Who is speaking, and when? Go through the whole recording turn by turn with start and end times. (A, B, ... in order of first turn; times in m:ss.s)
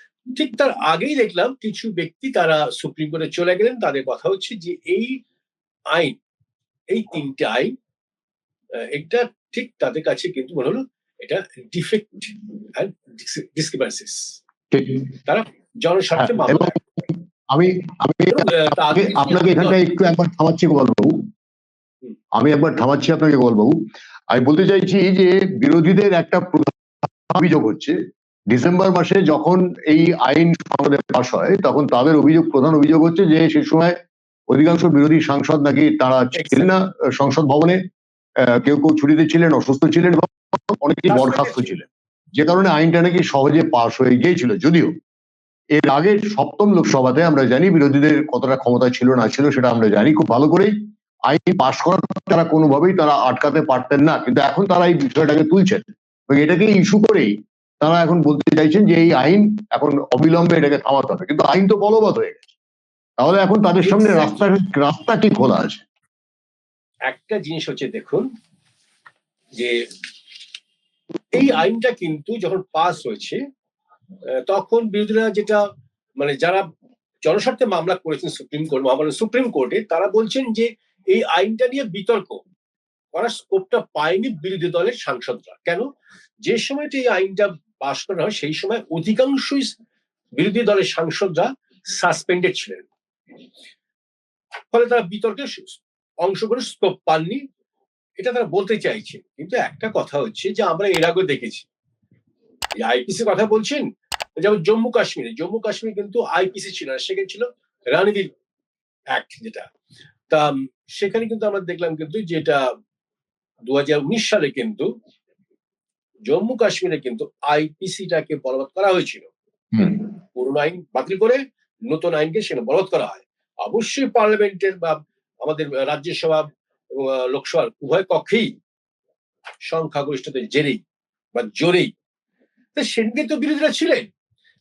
0:00.3-0:05.2 A
0:06.9-0:07.7 A
0:08.8-0:14.4 A
0:14.7-0:15.0 B
0:15.2-0:16.8 A
0:16.2-0:21.2 B
0:18.3-0:19.8 A
0:22.4-0:23.8 B
0:24.3-0:26.8 B
0:27.3-0:28.0 B
0:28.5-0:33.9 B
0:34.5-0:37.8 B
0:36.3-0:36.7 A
0:38.4-0:44.9 B
0:41.1-0:41.7 A
0:45.8-0:50.7 B
0:51.3-1:02.5 B
1:03.2-1:05.8 B
1:03.8-1:04.5 A
1:07.1-1:08.3 A
1:09.5-1:09.9 A
1:11.3-1:13.4 A
1:14.3-1:15.6 A
1:16.2-1:16.7 A
1:17.2-1:22.4 A
1:23.1-1:25.8 A
1:26.4-1:29.7 A
1:30.4-1:32.8 A
1:34.7-1:37.4 A
1:38.2-1:41.6 A
1:42.8-1:43.8 A
1:44.4-1:48.3 A
1:49.1-1:49.7 A
1:50.3-1:52.7 A
1:53.7-1:54.9 A
1:56.3-1:59.3 A
1:59.9-2:08.5 A
2:09.6-2:10.8 A
2:11.3-2:11.9 A
2:12.7-2:14.1 A